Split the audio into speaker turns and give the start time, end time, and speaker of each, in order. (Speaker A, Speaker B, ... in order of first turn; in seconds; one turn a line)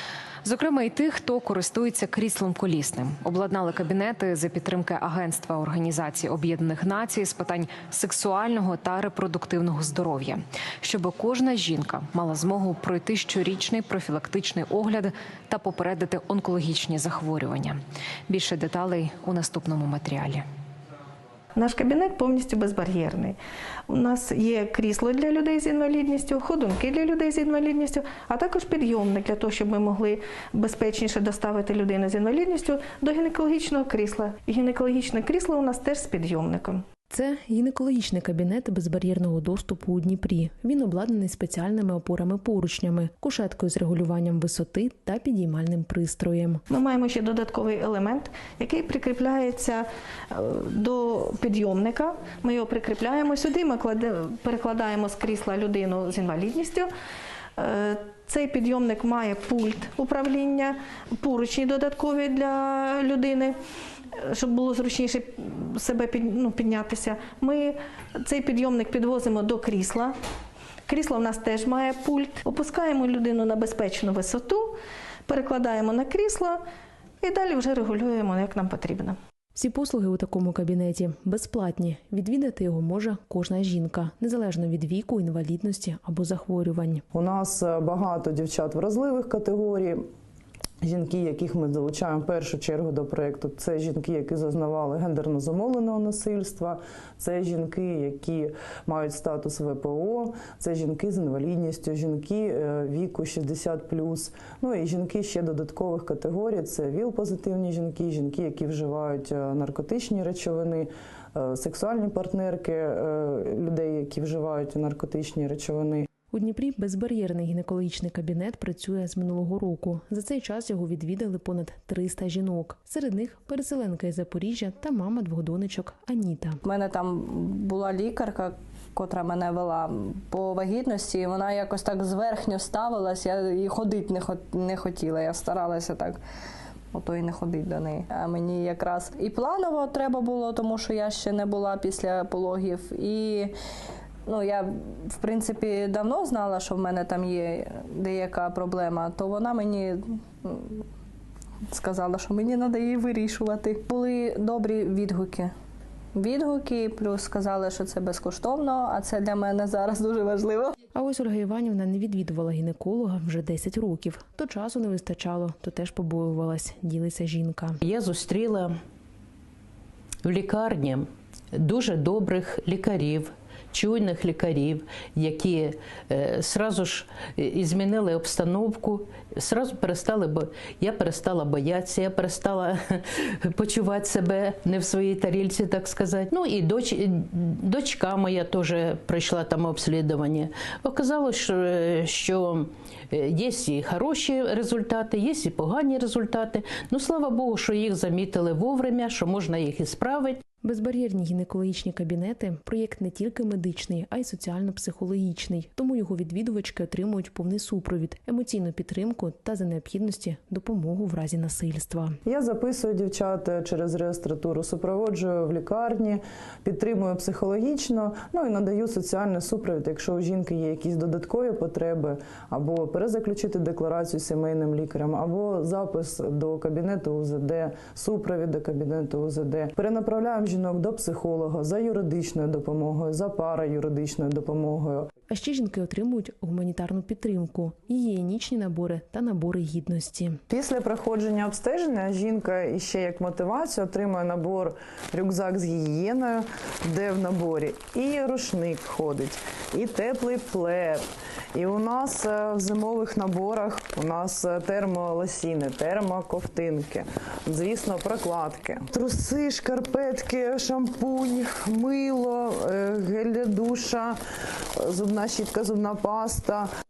Speaker A: 0.4-20.4
Speaker B: 21.6-23.4
Speaker B: 23.9-36.8
Speaker C: 37.1-46.6
Speaker B: 46.7-56.9
Speaker B: 57.6-63.6
Speaker B: 64.2-70.1
Speaker B: 70.9-74.8
Speaker B: 75.3-76.6
Speaker B: 77.2-79.2
Speaker C: 79.5-87.0
Speaker D: 87.1-90.0
Speaker D: 90.8-116.1
Speaker C: 116.3-126.6
Speaker E: 126.6-136.2
Speaker E: 136.9-143.5
Speaker E: 144.3-150.8
Speaker E: 151.7-155.5
Speaker E: 156.2-160.8
Speaker C: 160.9-167.8
Speaker F: 167.9-168.7
Speaker F: 170.2-200.4
Speaker C: 200.6-212.2
Speaker D: 212.2-235.1
Speaker C: 235.3-240.4
Speaker D: 240.5-251.0
Speaker D: 251.5-264.2
Speaker D: 264.8-266.7